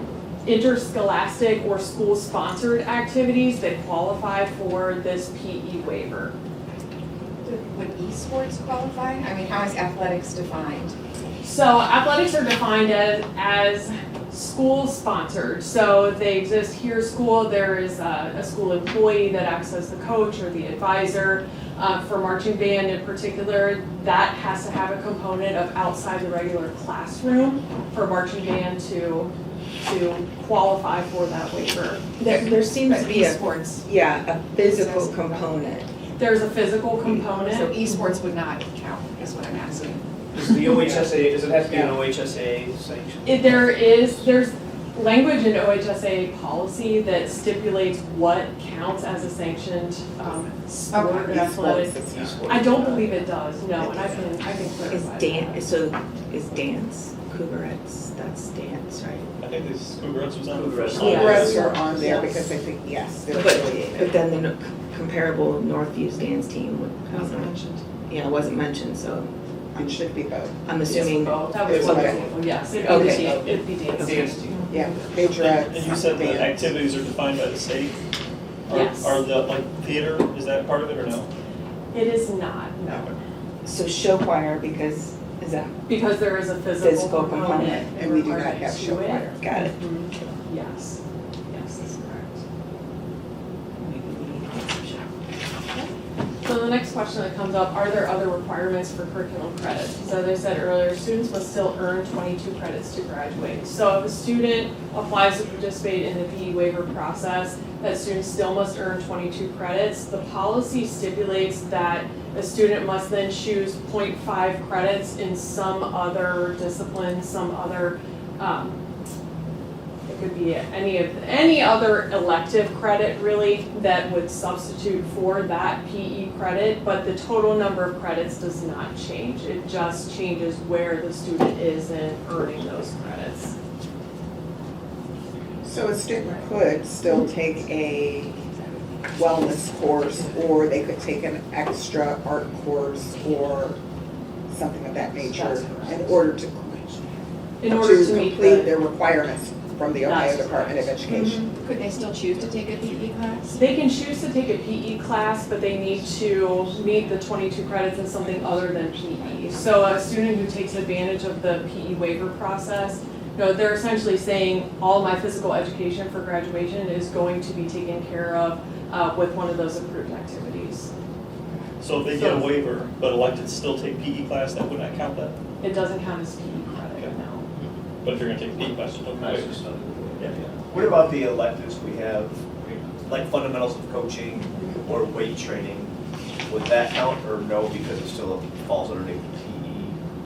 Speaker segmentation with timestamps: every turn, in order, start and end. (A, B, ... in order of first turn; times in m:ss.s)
0:00.4-0:06.3 A
0:07.4-0:11.0 B
0:11.4-0:32.0 A
0:32.2-0:35.9 C
0:32.2-0:33.8 B
0:34.6-0:35.5 B
0:36.2-0:37.8 A
0:37.3-0:40.0 B
0:40.3-0:44.3 D
0:41.7-0:42.0 E
0:43.2-0:55.6 A
0:50.9-0:51.3 B
0:51.2-0:53.1 E
0:52.1-0:53.2 D
0:53.8-0:54.2 E
0:54.9-0:59.3 C
0:59.4-1:01.6 F
1:00.5-1:02.2 D
1:01.0-1:01.6 C
1:01.1-1:04.2 E
1:01.5-1:02.1 A
1:03.3-1:10.1 C
1:07.2-1:07.8 B
1:09.8-1:10.6 E
1:10.6-1:12.2 C
1:10.8-1:14.8 A
1:11.7-1:12.2 E
1:11.7-1:12.2 D
1:12.8-1:14.1 C
1:12.9-1:13.5 D
1:14.0-1:14.7 D
1:14.7-1:16.8 E
1:15.2-1:18.0 F
1:18.7-1:21.3 F
1:18.7-1:19.2 A
1:21.9-1:23.2 A
1:23.6-1:25.8 C
1:25.9-1:32.4 A
1:26.8-1:27.9 C
1:27.8-1:29.4 E
1:29.4-1:29.8 C
1:33.8-1:35.1 C
1:36.4-1:58.8 A
2:00.0-2:13.6 A
2:15.6-2:18.5 E
2:19.1-2:23.8 E
2:24.5-2:27.0 E
2:25.2-2:26.2 A
2:27.6-2:28.7 A
2:27.6-2:31.5 E
2:30.0-2:31.0 A
2:31.1-2:33.7 B
2:33.5-2:50.9 A
2:36.7-2:37.1 B
2:38.2-2:39.6 B
2:51.8-2:55.3 F
2:52.1-2:52.5 A
2:55.6-2:57.5 A
2:58.0-2:59.6 F
2:59.2-3:02.4 D
3:00.2-3:00.4 F
3:03.0-3:05.9 D
3:06.4-3:10.0 D